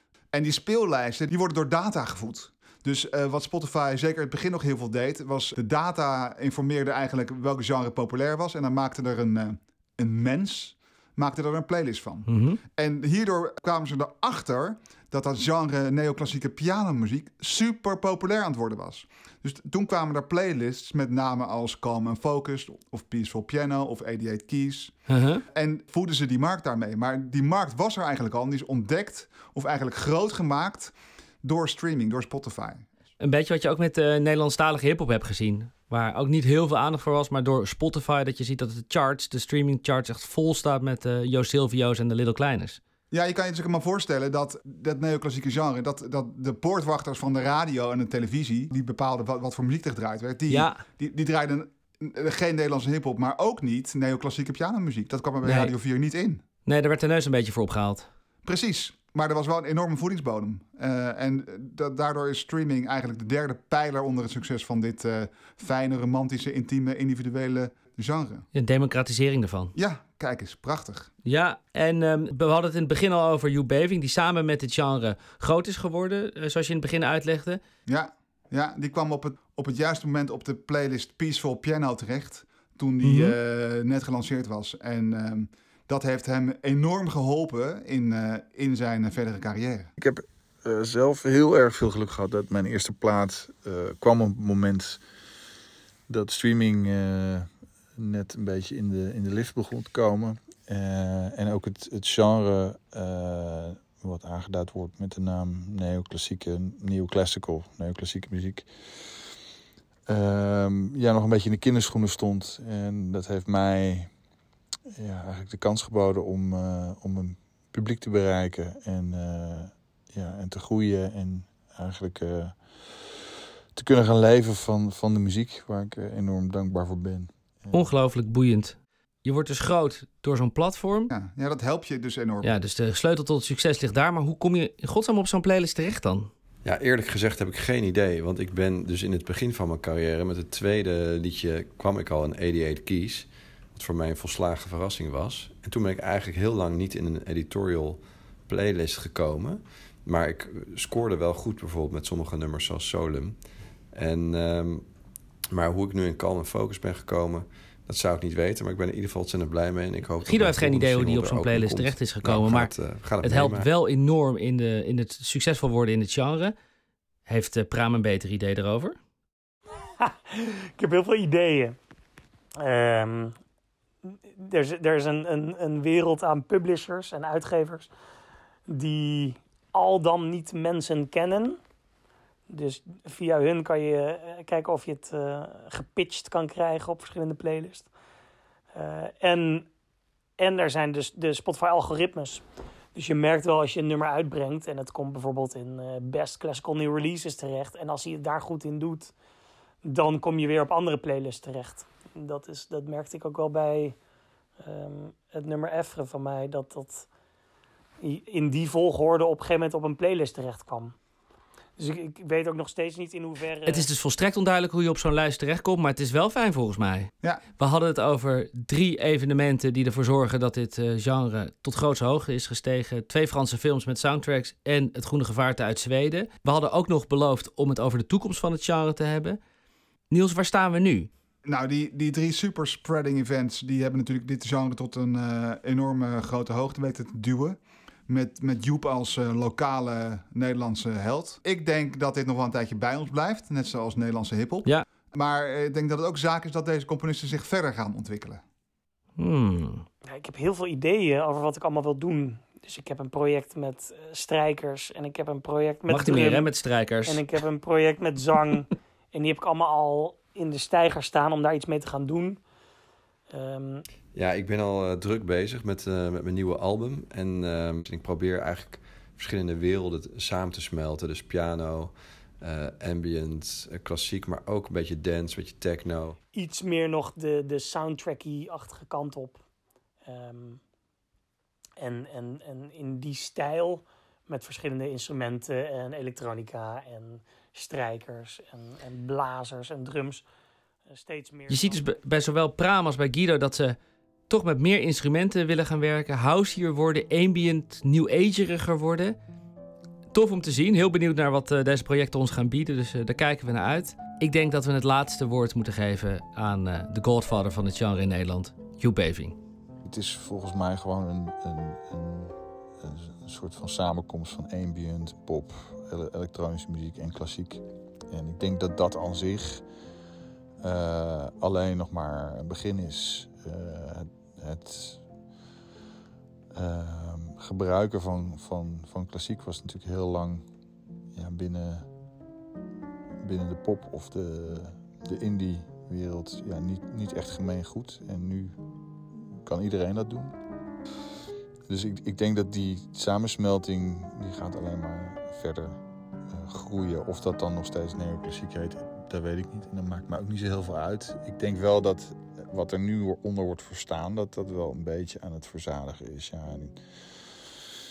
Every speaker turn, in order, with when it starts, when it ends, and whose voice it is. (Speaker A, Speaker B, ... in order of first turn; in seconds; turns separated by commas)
Speaker A: 0.3-24.9, Speaker B: 12.3-12.6, Speaker B: 25.1-25.4, Speaker A: 25.5-32.9, Speaker B: 33.2-42.8, Speaker A: 43.1-56.4, Speaker B: 50.5-50.8, Speaker B: 55.4-55.7, Speaker B: 56.6-58.1, Speaker A: 58.5-68.5, Speaker B: 68.5-69.7, Speaker A: 69.8-71.1, Speaker B: 71.2-77.6, Speaker A: 77.9-89.9, Speaker B: 83.0-83.4, Speaker C: 90.0-95.0, Speaker C: 96.1-109.2, Speaker C: 110.1-114.1, Speaker C: 114.9-127.9, Speaker B: 127.7-131.1, Speaker A: 131.1-132.5, Speaker B: 132.4-136.3, Speaker D: 136.6-154.9, Speaker D: 155.5-163.7, Speaker B: 160.2-166.6, Speaker B: 167.3-169.0, Speaker E: 170.0-171.8, Speaker E: 172.6-173.4, Speaker E: 174.1-177.9, Speaker E: 178.7-181.6, Speaker E: 182.5-187.9, Speaker E: 188.7-189.7, Speaker E: 190.4-199.1, Speaker E: 199.8-204.0, Speaker E: 204.6-207.1, Speaker E: 208.0-210.9, Speaker E: 211.8-213.9, Speaker B: 213.6-229.4, Speaker B: 230.1-231.1, Speaker A: 231.4-248.4, Speaker B: 249.2-249.9, Speaker E: 250.1-256.5, Speaker B: 255.9-257.2, Speaker E: 257.1-262.4, Speaker E: 263.3-263.9, Speaker D: 264.1-276.2, Speaker E: 276.3-279.4, Speaker E: 280.1-280.6, Speaker E: 281.8-290.2, Speaker E: 290.9-292.0, Speaker B: 291.5-293.8, Speaker B: 294.3-299.1, Speaker B: 300.1-309.4, Speaker C: 309.8-319.6, Speaker C: 320.6-325.1, Speaker C: 326.5-330.5, Speaker C: 331.1-331.9, Speaker C: 333.2-340.4, Speaker C: 341.7-357.6